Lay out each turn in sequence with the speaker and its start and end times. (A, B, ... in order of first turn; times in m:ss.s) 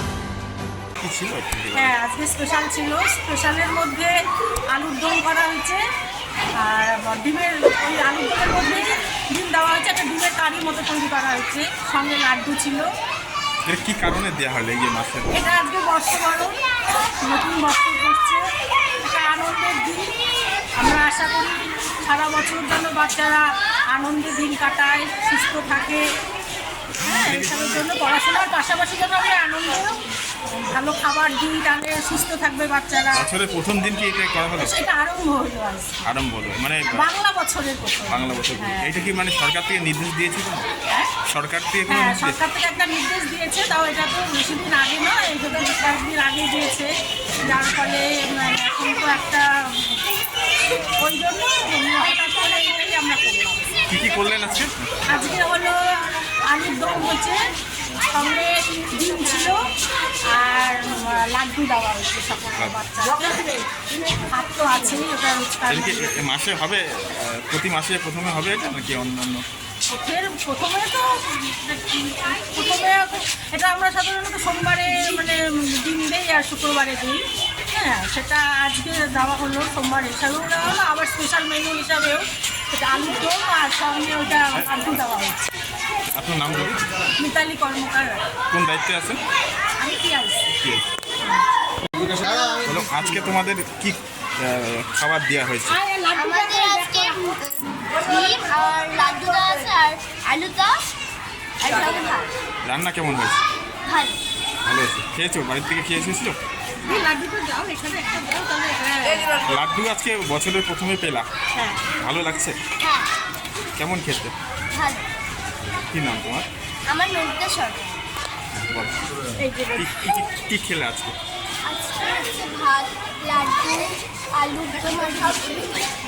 0:01.0-0:02.0 A
0:01.7-0:04.1 B
0:04.7-0:05.8 B
0:06.6-0:12.9 B
0:13.6-0:15.6 A
0:15.3-0:16.6 B
0:17.2-0:18.4 B
0:19.0-0:20.1 B
0:20.8-0:26.0 B
0:27.0-0:30.0 B
0:27.0-0:27.8 A
0:30.5-0:33.3 B
0:33.2-0:34.8 A
0:34.6-0:36.0 B
0:36.0-0:37.1 A
0:36.9-0:39.1 B
0:38.1-0:40.7 A
0:41.3-0:42.4 A
0:41.9-0:50.0 B
0:51.0-0:53.8 B
0:53.9-0:54.9 A
0:55.1-0:57.4 B
0:58.0-0:59.7 B
1:00.3-1:03.6 B
1:04.3-1:06.2 B
1:05.7-1:09.4 A
1:09.9-1:25.5 B
1:24.6-1:25.0 A
1:26.1-1:26.9 A
1:27.2-1:28.3 B
1:28.5-1:29.2 A
1:29.8-1:30.5 B
1:30.5-1:30.9 A
1:32.0-1:32.6 B
1:32.6-1:35.8 A
1:35.7-1:37.2 B
1:36.2-1:40.8 C
1:41.6-1:42.3 C
1:42.6-1:43.4 A
1:43.8-1:44.2 C
1:44.6-1:46.4 A
1:46.8-1:49.4 B
1:49.4-1:51.3 A
1:51.6-1:51.8 B
1:52.0-1:52.6 A
1:52.8-1:53.1 C
1:53.8-1:54.3 A
1:54.7-1:55.1 C
1:55.9-1:56.5 A
1:56.9-1:58.0 C
1:58.6-2:01.2 A
1:59.4-1:59.8 B
2:01.6-2:05.9 C